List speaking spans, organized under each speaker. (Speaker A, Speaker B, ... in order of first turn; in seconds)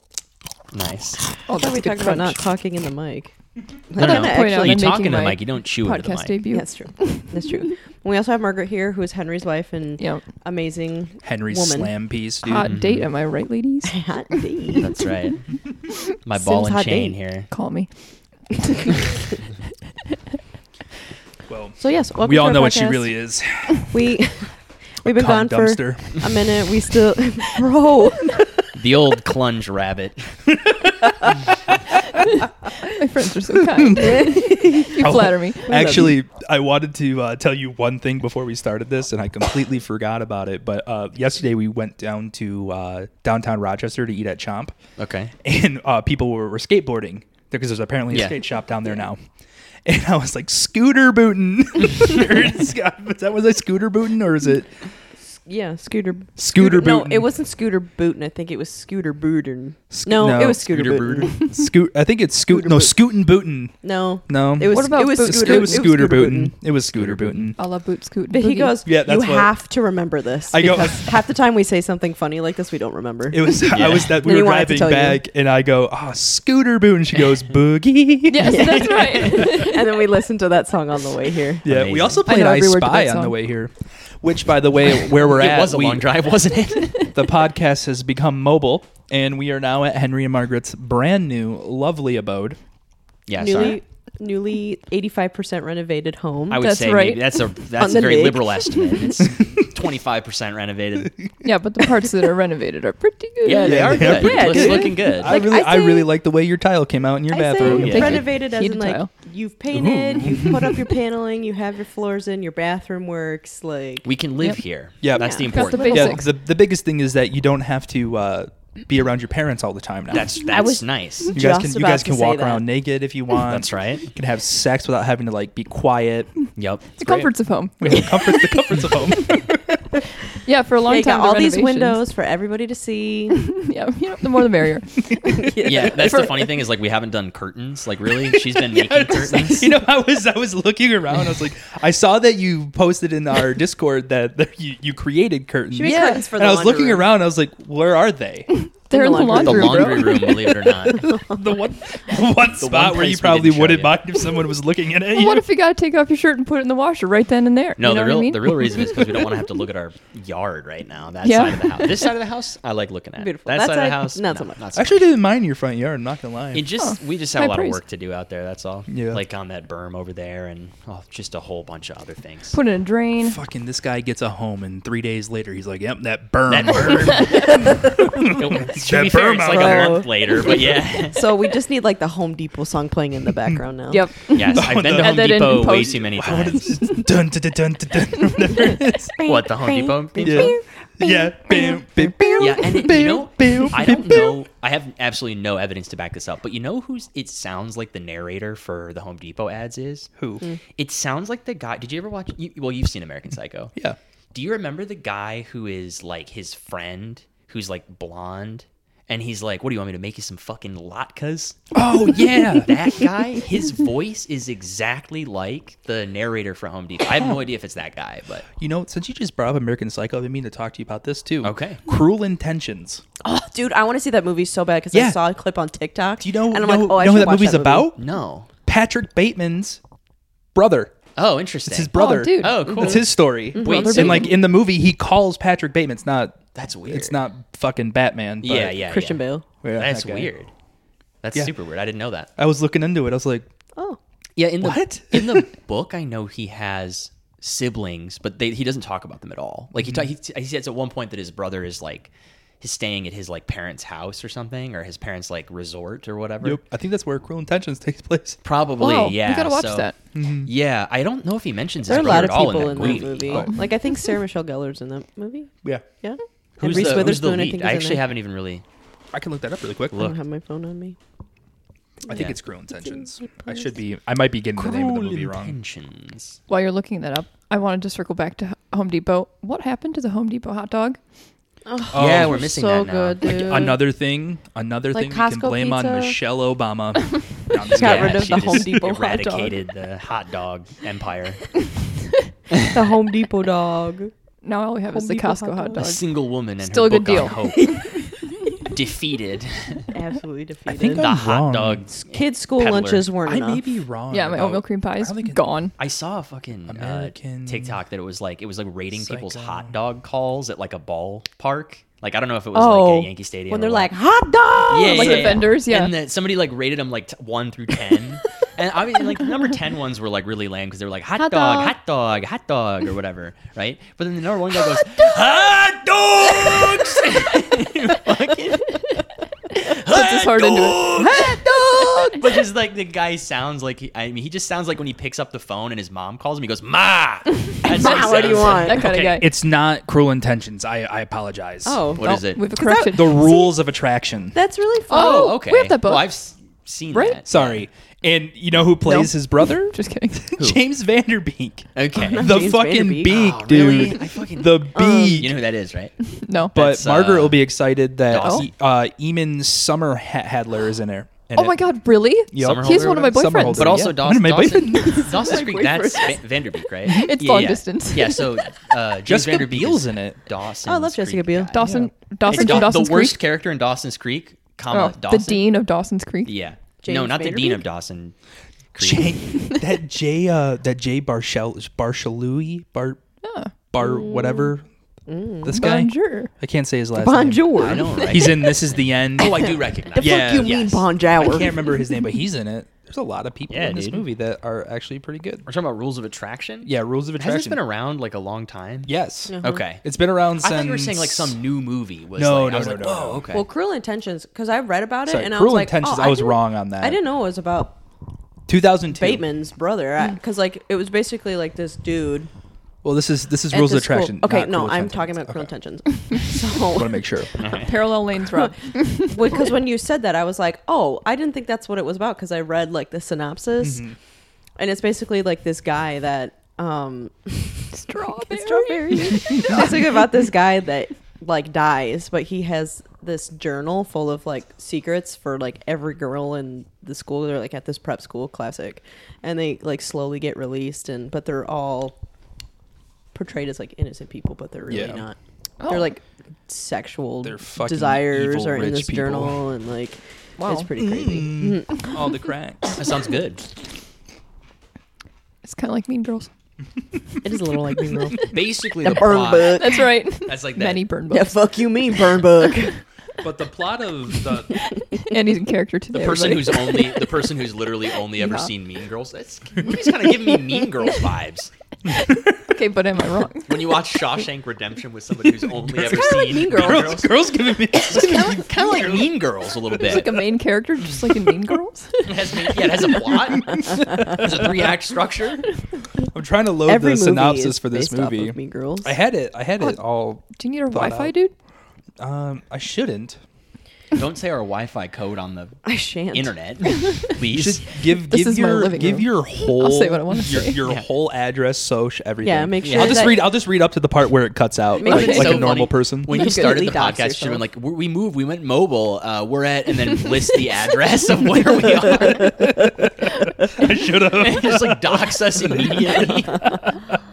Speaker A: 0.7-1.3, 4.0-6.4, 12.6-13.1, 14.8-15.4, 16.2-17.5, 28.7-30.4, 45.0-45.3, 48.1-48.4, 60.7-61.3, 66.9-67.5, 73.7-74.2, 78.9-79.3, 81.7-82.2, 85.0-87.1, 93.3-93.8, 96.5-101.2, 103.4-105.4, 107.6-108.2, 114.0-116.2, 120.1-121.3, 123.4-124.1, 126.6-127.3, 135.6-139.7, 149.4-151.2, 152.6-154.0, 157.8-165.1, 166.5-172.6, 176.5-177.7, 178.3-181.3, 184.3-187.0, 189.2-190.5, 192.4-200.1, 200.8-203.7, 204.3-211.7, 212.6-218.5, 221.4-221.8, 227.9-228.5, 231.2-234.3, 236.6-237.2, 238.4-240.5, 241.2-242.3, 244.4-256.6, 258.4-259.9, 260.4-263.5, 266.6-268.6, 272.1-272.4, 274.6-276.4, 281.9-283.5, 287.7-291.5, 295.8-299.9, 300.8-303.2, 305.8-313.9, 314.7-339.3, 342.0-342.4, 344.9-347.6, 351.8-352.5, 353.0-357.5, 358.1-358.5, 362.4-371.6, 372.3-375.6, 376.2-378.1, 378.7-379.2, 387.6-388.6, 389.2-390.8, 393.5-394.0, 395.5-399.9, 400.4-403.4, 417.4-417.9, 452.8-453.4, 458.3-460.8, 465.9-471.5, 473.5-477.1, 477.7-480.2, 482.1-485.5, 493.9-497.7, 502.6-503.1, 504.8-512.5, 514.1-516.5
Speaker B: 1.5-2.4, 4.0-7.4, 12.4-14.0, 17.5-17.9, 18.5-19.4, 32.8-36.0, 64.7-65.9, 67.6-68.8, 78.3-80.0, 82.3-83.4, 96.6-97.3, 101.4-104.8, 107.3-109.1, 115.5-116.2, 127.0-129.4, 130.4-132.0, 133.4-136.4, 145.8-146.2, 148.5-150.7, 155.1-159.0, 161.2-162.0, 166.8-167.8, 172.5-173.4, 183.9-187.1, 191.5-191.8, 231.9-232.7, 258.8-260.0, 276.5-281.0, 294.4-296.0, 296.6-298.0, 304.1-305.7, 314.8-315.9, 329.9-332.2, 337.8-339.3, 342.0-343.3, 344.9-346.1, 348.9-350.4, 356.1-356.6, 358.2-358.4, 361.4-363.9, 366.9-368.4, 371.5-373.2, 374.7-376.4, 383.2-383.5, 385.5-386.3, 417.5-419.5, 427.7-429.8, 445.6-445.9, 455.4-456.3, 459.4-461.4, 464.9-467.0, 468.2-468.5, 472.4-473.7, 479.8-483.2, 489.6-491.3, 496.8-497.1, 497.9-500.6, 504.8-505.4
Speaker C: 1.5-3.3, 3.9-4.9, 6.5-11.9, 13.8-14.9, 16.4-17.2, 21.8-23.2, 23.9-28.5, 34.2-34.9, 35.7-36.1, 55.5-61.5, 62.5-63.0, 63.8-66.6, 68.3-75.2, 78.4-81.7, 93.4-96.7, 97.8-99.3, 104.0-106.1, 107.3-114.1, 115.2-116.1, 120.5-122.7, 130.9-133.5, 135.4-136.4, 145.7-147.1, 148.9-150.3, 151.0-151.4, 163.2-164.6, 179.5-184.1, 188.7-192.4, 223.2-227.9, 232.7-234.4, 238.8-239.5, 261.9-268.0, 269.9-271.0, 281.7-283.9, 284.9-286.2, 287.7-289.5, 292.7-294.1, 294.9-296.0, 299.9-301.1, 302.1-303.6, 312.5-315.5, 321.2-321.7, 331.0-332.3, 337.6-339.1, 341.6-343.5, 344.3-345.4, 352.0-353.8, 354.7-355.3, 365.0-366.2, 370.7-371.6, 372.4-372.7, 376.8-377.6, 383.8-384.6, 385.1-385.6, 386.9-388.5, 389.2-391.7, 399.3-399.6, 403.3-407.8, 408.9-412.3, 413.5-417.0, 418.3-423.9, 424.6-441.9, 443.1-452.0, 457.2-459.9, 461.1-462.8, 476.2-477.1, 486.7-489.0, 495.6-496.4, 502.2-503.3, 504.8-507.4
Speaker D: 11.2-12.7, 21.5-24.2, 25.0-26.3, 30.5-31.7, 33.6-44.8, 45.4-49.2, 49.9-54.8, 56.4-57.3, 59.9-67.6, 68.8-69.5, 70.5-71.1, 73.3-79.7, 81.6-86.1, 87.1-92.6, 99.2-99.6, 101.2-102.2, 103.6-108.3, 109.7-110.9, 115.0-120.4, 121.3-126.3, 127.0-127.3, 127.8-129.8, 138.2-148.5, 151.1-155.5, 164.7-166.7, 168.9-169.2, 173.2-180.1, 184.5-189.1, 190.2-194.4, 200.2-200.4, 211.7-212.8, 218.6-223.0, 224.9-225.2, 226.2-228.0, 228.7-229.8, 230.5-231.0, 231.7-238.8, 239.6-240.3, 242.4-243.5, 244.6-245.5, 249.8-250.1, 256.4-258.4, 260.1-260.5, 261.9-263.7, 266.7-267.2, 269.1-270.1, 272.1-275.6, 281.9-282.4, 283.2-288.8, 300.7-301.9, 303.3-305.4, 306.7-307.8, 308.9-309.7, 339.2-341.9, 342.8-344.4, 347.3-355.4, 356.6-361.7, 362.3-365.2, 366.9-367.1, 369.1-370.2, 371.6-371.9, 378.8-383.0, 383.7-384.6, 385.4-390.6, 391.2-395.5, 396.6-397.6, 398.9-401.4, 402.2-403.3, 405.1-407.0, 408.5-409.2, 412.8-415.5, 416.7-417.4, 423.6-423.9, 429.2-429.6, 444.7-445.0, 447.2-449.4, 450.8-452.8, 463.2-464.6, 471.9-472.5, 475.5-480.1, 481.0-481.3, 483.2-484.7, 486.1-491.1, 492.0-493.2, 497.3-506.3, 512.0-516.8